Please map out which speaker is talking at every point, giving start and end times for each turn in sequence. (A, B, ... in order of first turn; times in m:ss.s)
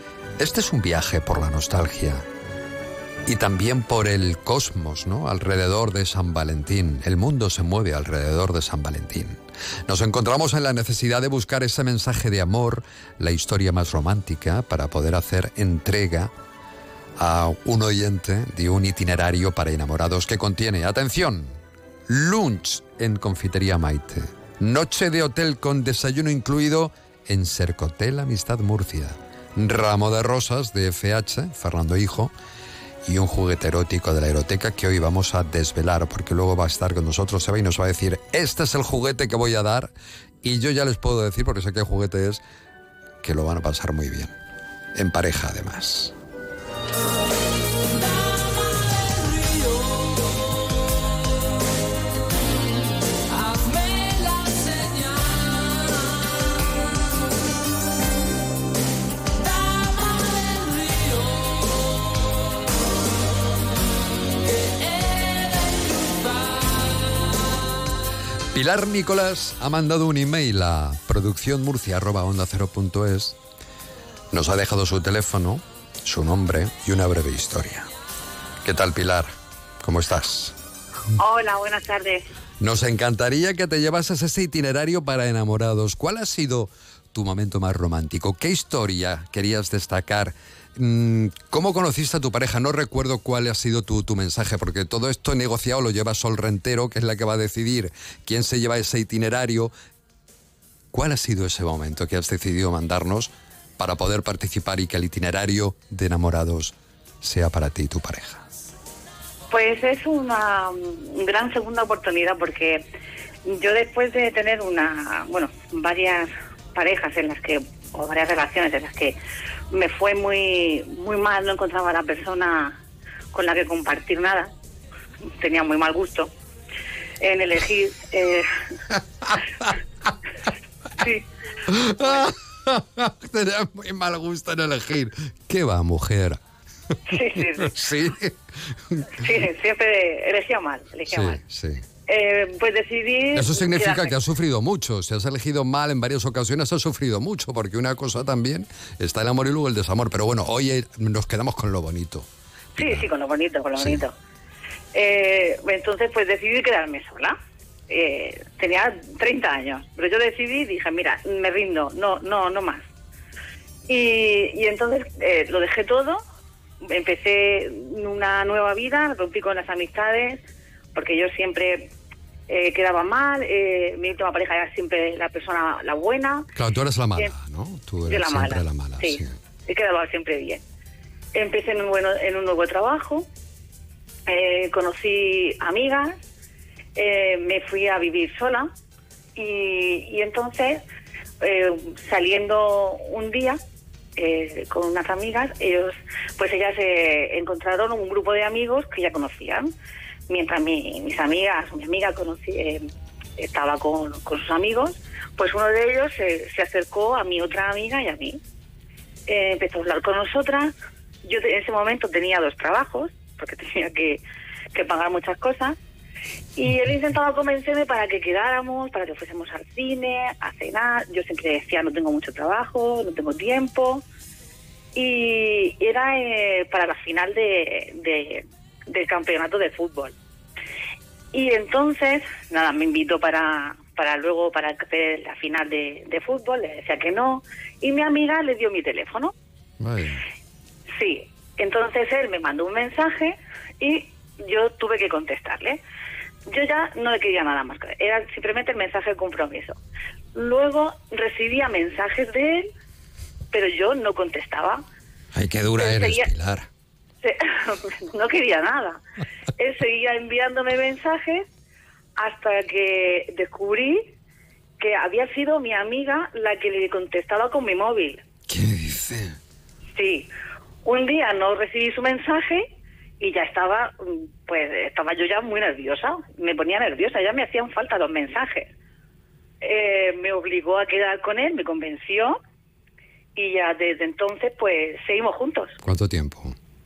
0:00.4-0:02.2 A
0:03.3-0:16.3 A
0:17.2-0:32.3 A
0:33.1-0:39.9 A
0:40.4-0:42.4 A
0:43.2-0:44.3 A
0:45.0-0:46.1 A
1:08.5-1:13.4 A
1:14.3-1:17.9 A
1:18.6-1:19.3 A
1:19.8-1:20.6 A
1:21.2-1:22.3 B
1:22.6-1:39.7 A
1:40.9-1:48.4 A
1:49.5-1:52.8 B
1:53.5-1:59.2 B
1:59.7-2:02.8 B
2:03.3-2:04.5 B
2:05.4-2:06.3 B
2:07.2-2:08.5 B
2:11.0-2:11.3 B
2:11.7-2:16.4 A
2:12.0-2:12.2 B
2:17.1-2:17.8 B
2:17.1-2:19.2 A
2:19.1-2:21.4 B
2:21.1-2:21.8 A
2:22.1-2:24.2 B
2:23.4-2:32.3 A
2:32.8-2:34.1 B
2:32.8-2:33.1 A
2:33.8-2:34.0 A
2:34.9-2:37.4 B
2:37.9-2:42.8 B
2:43.9-2:46.2 B
2:46.8-2:50.4 B
2:50.9-2:51.9 B
2:52.5-2:56.5 B
2:56.6-2:59.3 A
2:58.1-3:00.6 B
3:01.3-3:03.2 B
3:04.3-3:06.2 B
3:07.0-3:08.7 B
3:09.4-3:10.8 B
3:11.4-3:13.6 B
3:14.2-3:19.7 B
3:20.3-3:22.8 B
3:23.4-3:28.4 B
3:29.3-3:30.7 B
3:31.2-3:35.8 B
3:36.6-3:44.0 B
3:45.0-3:50.2 B
3:51.3-3:59.3 B
3:59.8-4:00.2 A
4:01.0-4:05.8 B
4:06.5-4:09.8 B
4:10.4-4:12.7 B
4:13.5-4:14.8 B
4:15.3-4:16.7 A
4:15.8-4:16.3 B
4:17.2-4:19.0 B
4:19.6-4:21.4 B
4:22.2-4:24.1 B
4:24.8-4:28.2 B
4:28.5-4:29.4 A
4:30.0-4:30.3 B
4:30.8-4:32.7 B
4:33.2-4:38.7 B
4:39.6-4:42.4 B
4:43.4-4:45.8 B
4:45.8-4:46.6 A